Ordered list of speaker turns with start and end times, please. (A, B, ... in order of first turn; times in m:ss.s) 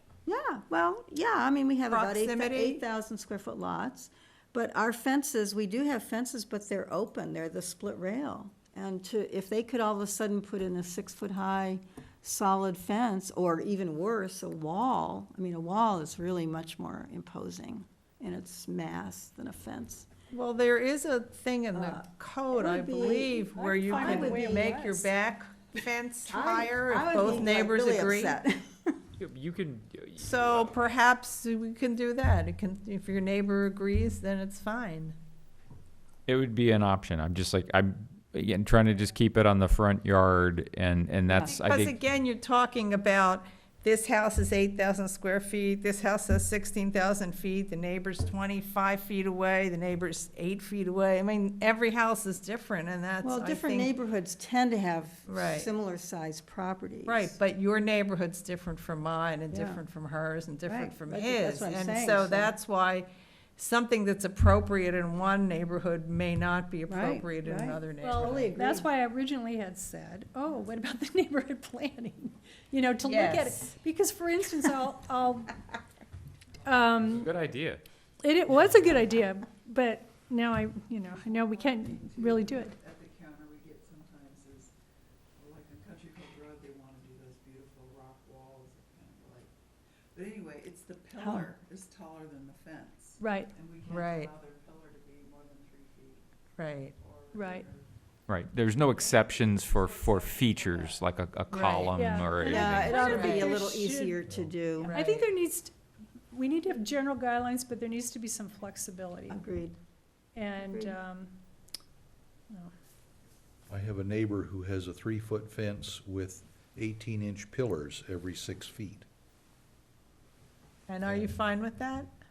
0:00.3-0:20.1 A
0:01.9-0:02.8 B
0:20.3-0:28.4 B
0:21.7-0:25.1 A
0:23.9-0:25.0 C
0:26.3-0:29.0 A
0:29.2-0:30.8 D
0:30.2-0:35.2 B
0:36.3-0:41.9 D
0:41.5-0:53.9 B
0:53.2-0:57.4 A
0:55.3-0:55.7 B
0:57.1-1:08.5 B
0:59.5-0:59.8 A
1:00.7-1:02.6 A
1:06.9-1:08.9 A
1:08.0-1:15.6 C
1:13.0-1:13.6 B
1:16.6-1:17.3 C
1:17.1-1:17.8 D
1:18.2-1:22.8 C
1:22.8-1:24.7 E
1:25.5-1:29.4 E
1:30.2-1:31.1 E
1:31.2-1:31.5 A
1:33.2-1:33.5 C
1:33.9-1:34.3 B
1:34.3-1:36.1 E
1:36.6-1:37.0 B
1:37.3-1:37.7 C
1:38.3-1:43.5 D
1:41.5-1:41.9 B
1:41.9-1:44.2 C
1:42.4-1:44.9 A
1:43.1-1:43.5 B
1:44.8-1:45.3 B
1:44.9-1:45.7 C
1:46.3-1:49.4 C
1:49.3-1:49.8 A
1:50.4-1:51.3 C
1:50.6-1:51.0 A
1:53.7-1:59.1 F
2:00.9-2:02.1 B
2:01.1-2:01.4 F